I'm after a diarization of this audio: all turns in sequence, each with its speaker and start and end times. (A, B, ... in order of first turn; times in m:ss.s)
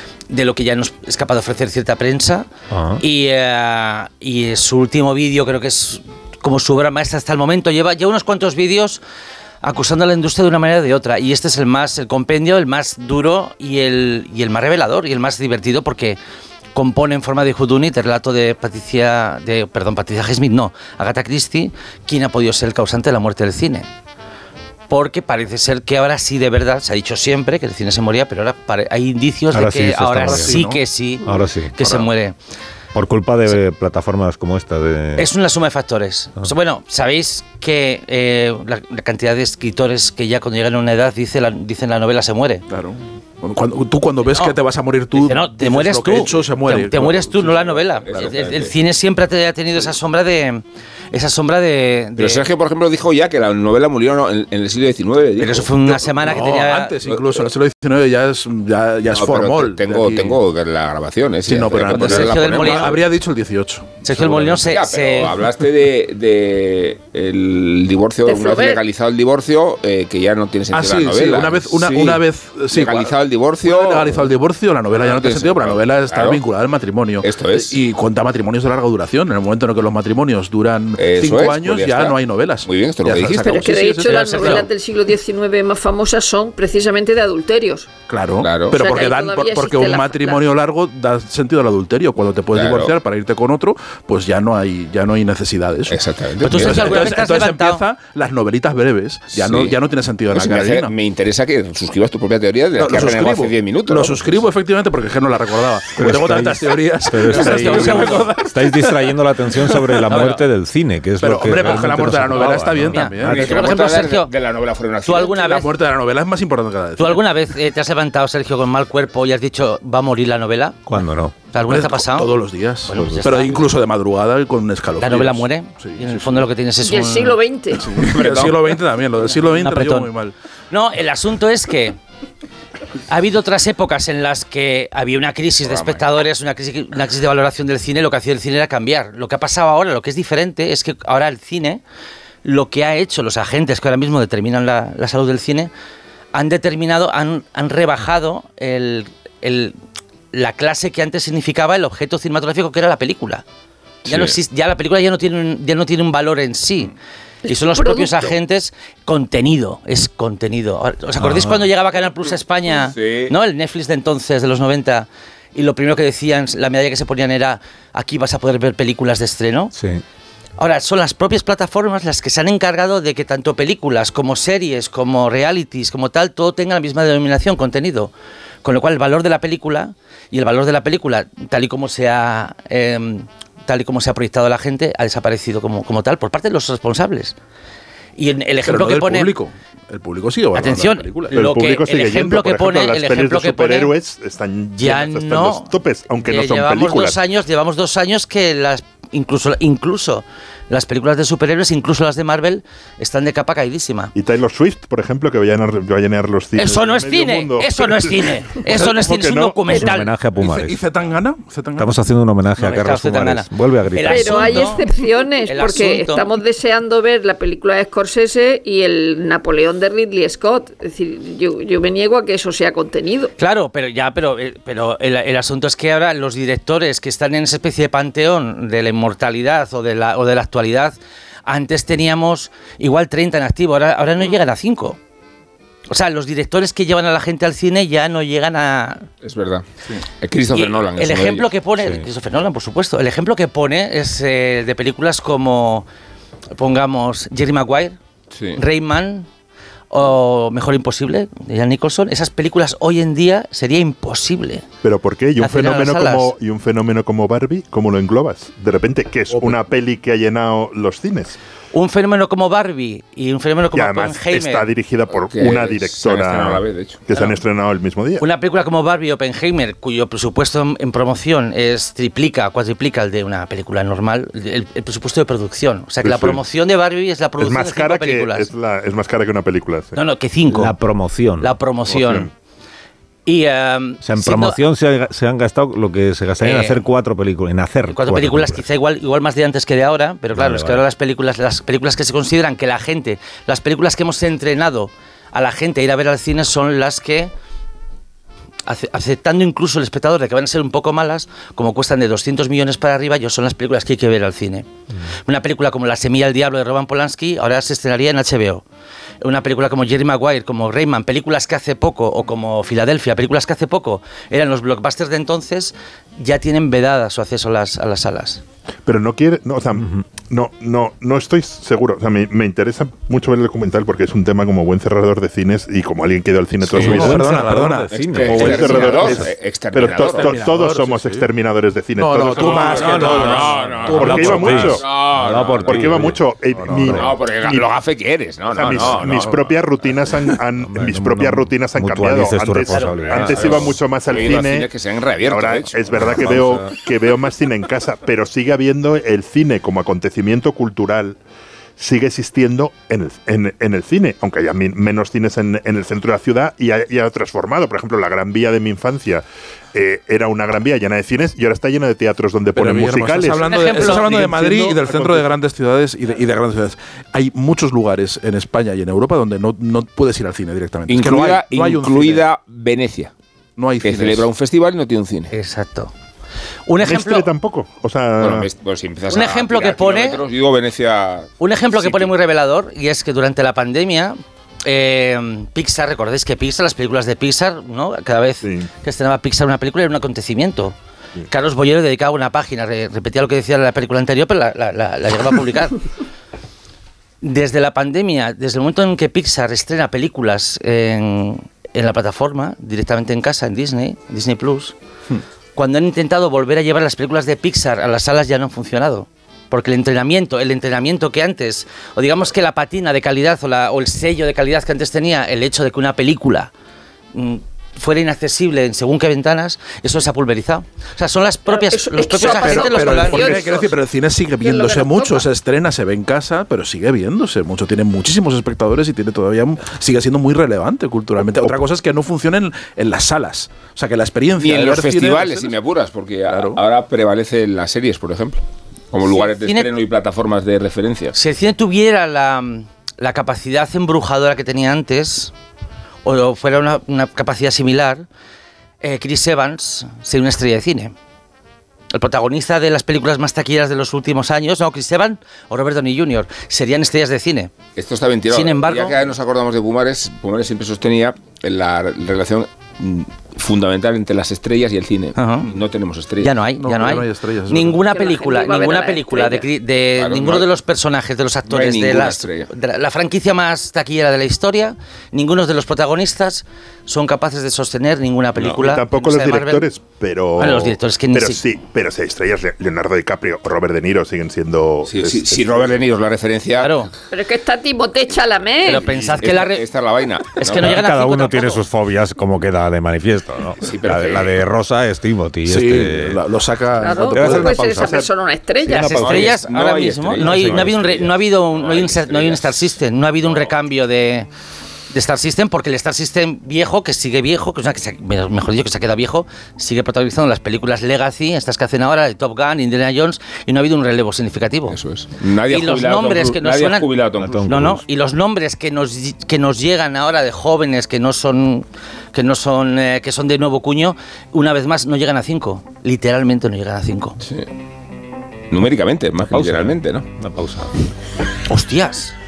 0:00.3-0:02.5 A
0:02.7-0:03.0 B
0:03.0-0:09.0 A
0:09.6-0:16.2 A
0:16.7-0:23.9 A
0:24.9-0:32.4 A
0:29.5-0:30.6 B
0:30.2-0:30.8 C
0:31.2-0:32.0 B
0:32.9-0:35.3 B
0:35.2-0:42.6 A
0:42.7-0:48.3 C
0:44.3-0:44.6 A
0:45.1-0:52.4 A
0:48.0-0:48.7 D
0:52.2-0:56.5 D
0:55.4-0:56.9 A
0:56.2-1:00.4 C
0:57.0-0:57.4 D
0:59.1-1:03.0 D
1:01.5-1:04.6 C
1:01.9-1:03.0 A
1:04.0-1:05.4 A
1:04.5-1:14.3 D
1:08.2-1:08.8 E
1:10.7-1:24.7 C
1:14.9-1:16.4 D
1:17.2-1:17.8 D
1:21.0-1:23.7 D
1:23.4-1:27.9 E
1:24.0-1:24.7 A
1:28.1-1:40.9 C
1:28.4-1:28.8 D
1:28.7-1:30.4 E
1:32.5-1:32.9 D
1:35.9-1:37.1 D
1:36.4-1:37.8 A
1:39.3-1:39.8 D
1:40.3-1:44.2 D
1:42.8-1:49.1 C
1:46.0-1:53.7 B
1:47.3-1:48.3 A
1:49.9-1:50.3 C
1:50.0-1:50.4 A
1:51.2-1:53.5 C
1:52.9-1:54.3 A
1:53.3-1:55.3 D
1:55.0-1:55.7 A
1:55.1-1:57.2 C
1:57.0-2:00.8 A
2:00.8-2:01.3 B
2:01.5-2:02.3 A
2:01.6-2:06.5 C
2:02.9-2:03.6 A
2:03.0-2:03.2 B
2:05.0-2:07.4 A
2:06.8-2:07.9 E
2:07.8-2:10.3 C
2:08.0-2:08.8 D
2:09.4-2:10.1 A
2:10.7-2:12.0 A
2:13.1-2:21.8 A
2:15.6-2:16.1 D
2:22.4-2:25.7 A
2:26.3-2:29.7 A
2:30.3-2:33.4 A
2:34.0-2:36.9 A
2:37.4-2:38.3 E
2:37.5-2:49.7 A
2:41.2-2:41.6 B
2:42.9-2:43.3 D
2:49.7-2:50.0 B
2:50.6-2:58.1 A
2:58.6-3:07.4 A
3:08.2-3:09.3 A
3:08.6-3:11.3 C
3:10.5-3:13.9 A
3:11.3-3:17.2 F
3:14.8-3:15.7 A
3:16.2-3:24.1 A
3:24.1-3:29.9 F
3:26.6-3:30.1 A
3:29.7-3:30.8 B
3:30.4-3:31.9 C
3:31.8-3:34.8 B
3:32.6-3:34.9 A
3:34.0-3:43.3 E
3:35.4-3:36.3 A
3:43.4-3:51.0 A
3:51.5-3:55.0 A
3:55.9-3:59.1 A
3:59.2-3:59.6 D
4:00.2-4:01.5 D
4:00.5-4:05.8 A
4:01.8-4:02.1 B
4:06.5-4:08.0 A
4:08.3-4:08.6 D
4:08.5-4:09.3 A
4:09.9-4:14.6 A
4:14.8-4:21.4 F
4:15.4-4:16.3 A
4:21.7-4:24.7 A
4:23.7-4:28.2 F
4:25.1-4:27.0 D
4:28.2-4:38.5 A
4:36.0-4:36.4 F
4:37.4-4:40.0 F
4:39.9-4:40.8 A
4:40.5-4:41.5 B
4:41.4-4:42.3 A
4:41.9-4:42.3 F
4:43.2-4:44.6 A
4:44.0-4:48.6 B
4:46.4-4:46.8 A
4:47.9-4:57.3 A
4:50.3-4:50.8 B
4:58.7-5:04.7 A
5:05.2-5:08.6 A
5:09.2-5:18.4 A
5:18.8-5:27.6 F
5:19.8-5:20.0 B
5:26.7-5:27.0 D
5:26.8-5:29.3 B
5:26.8-5:29.1 C
5:27.9-5:30.3 D
5:28.2-5:34.9 F
5:30.0-5:31.2 C
5:32.0-5:34.7 C
5:32.4-5:36.0 D
5:32.8-5:37.2 B
5:35.4-5:37.7 F
5:36.8-5:39.6 D
5:38.5-5:44.7 F
5:40.6-5:43.8 B
5:43.1-5:46.1 D
5:45.2-5:51.2 F
5:46.0-5:46.7 B
5:51.8-6:05.3 F
6:02.5-6:12.2 C
6:03.4-6:04.1 A
6:10.9-6:13.1 D
6:13.6-6:14.3 C
6:13.8-6:15.3 D
6:15.3-6:15.9 A
6:16.7-6:17.3 A
6:16.8-6:18.5 F
6:18.2-6:22.1 D
6:19.1-6:20.2 A
6:21.4-6:30.7 A
6:28.4-6:28.7 F
6:31.3-6:35.8 A
6:37.2-6:44.8 A
6:45.6-6:56.5 A
6:57.1-7:03.4 A
7:01.5-7:03.7 E
7:02.2-7:15.5 C
7:04.4-7:05.3 E
7:14.4-7:21.2 D
7:16.3-7:16.6 C
7:19.0-7:19.7 A
7:21.1-7:25.3 A
7:26.0-7:28.0 A
7:28.8-7:30.9 A
7:31.9-7:37.5 A
7:37.8-7:46.4 D
7:38.3-7:39.0 A
7:45.2-7:45.5 A
7:46.2-7:59.7 A
7:46.6-7:47.8 C
7:47.9-7:49.4 E
7:50.0-7:50.5 D
7:51.5-7:52.5 D
7:58.4-8:05.6 F
8:00.4-8:01.4 A
8:04.8-8:06.8 D
8:06.6-8:06.9 A
8:07.1-8:08.9 E
8:08.6-8:09.6 A
8:08.7-8:10.8 D
8:08.9-8:09.3 F
8:10.3-8:11.6 A
8:10.5-8:16.2 B
8:13.6-8:14.4 D
8:15.4-8:17.6 C
8:16.8-8:19.1 E
8:17.1-8:18.0 B
8:18.6-8:19.3 B
8:18.7-8:24.3 A
8:18.9-8:22.7 D
8:20.2-8:20.7 B
8:23.2-8:23.5 D
8:24.9-8:34.8 A
8:34.7-8:37.4 D
8:35.5-8:36.9 A
8:37.2-8:37.8 B
8:37.4-8:47.2 A
8:48.5-8:50.0 D
8:49.2-8:50.7 B
8:51.5-8:52.1 A